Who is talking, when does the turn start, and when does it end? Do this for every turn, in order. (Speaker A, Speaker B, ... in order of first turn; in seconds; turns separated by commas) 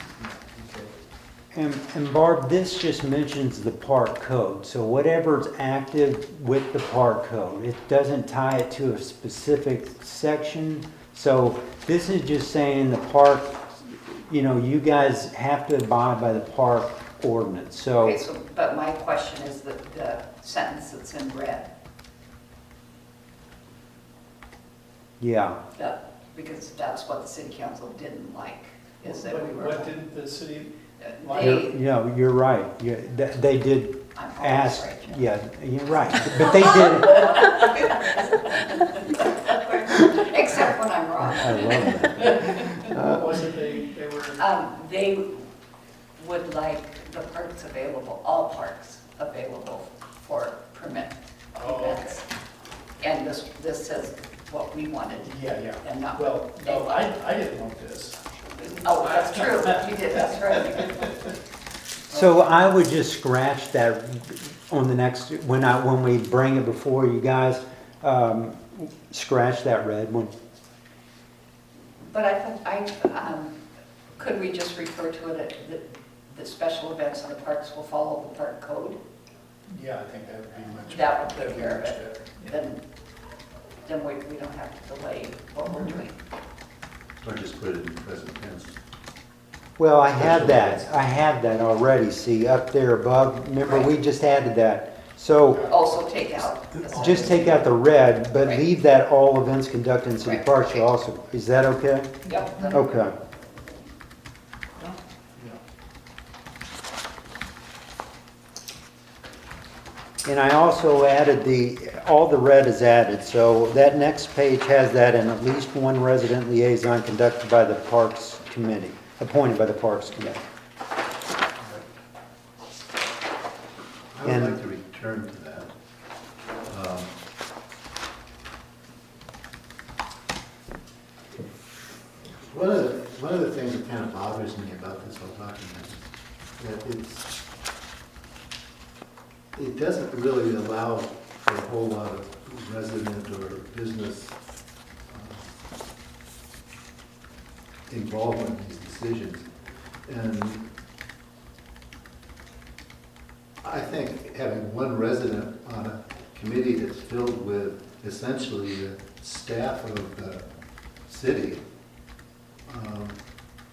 Speaker A: 0.2-0.9, Speaker B: 1.5-18.2, Speaker C: 18.0-21.7, Speaker B: 25.2-25.6, Speaker C: 25.8-29.9, Speaker A: 29.0-31.6, Speaker C: 31.0-31.7, Speaker B: 31.4-37.9, Speaker C: 34.1-35.2, Speaker C: 36.2-42.8, Speaker B: 41.2-43.4, Speaker A: 42.9-44.4, Speaker C: 44.4-45.5, Speaker C: 46.2-52.2, Speaker A: 51.5-52.2, Speaker C: 53.0-57.1, Speaker A: 55.2-58.2, Speaker C: 58.6-61.2, Speaker A: 58.8-61.1, Speaker B: 62.1-70.3, Speaker C: 72.1-73.5, Speaker C: 74.2-79.0, Speaker A: 79.7-82.5, Speaker C: 80.9-82.8, Speaker C: 83.8-86.2, Speaker A: 85.7-86.0, Speaker D: 87.2-88.7, Speaker B: 89.8-95.7, Speaker D: 90.1-90.9, Speaker C: 93.7-93.9, Speaker C: 95.7-97.6, Speaker B: 96.8-103.1, Speaker A: 96.9-97.5, Speaker C: 100.2-100.9, Speaker C: 102.3-103.0, Speaker B: 110.2-120.4, Speaker D: 121.6-121.8, Speaker D: 124.1-125.7, Speaker B: 124.2-124.6, Speaker D: 126.7-127.1, Speaker D: 132.5-136.1, Speaker D: 136.6-137.3, Speaker D: 139.6-144.4, Speaker D: 145.1-145.5, Speaker D: 147.9-149.5, Speaker D: 150.1-150.7, Speaker D: 153.6-160.4, Speaker D: 161.1-161.6, Speaker D: 162.7-163.2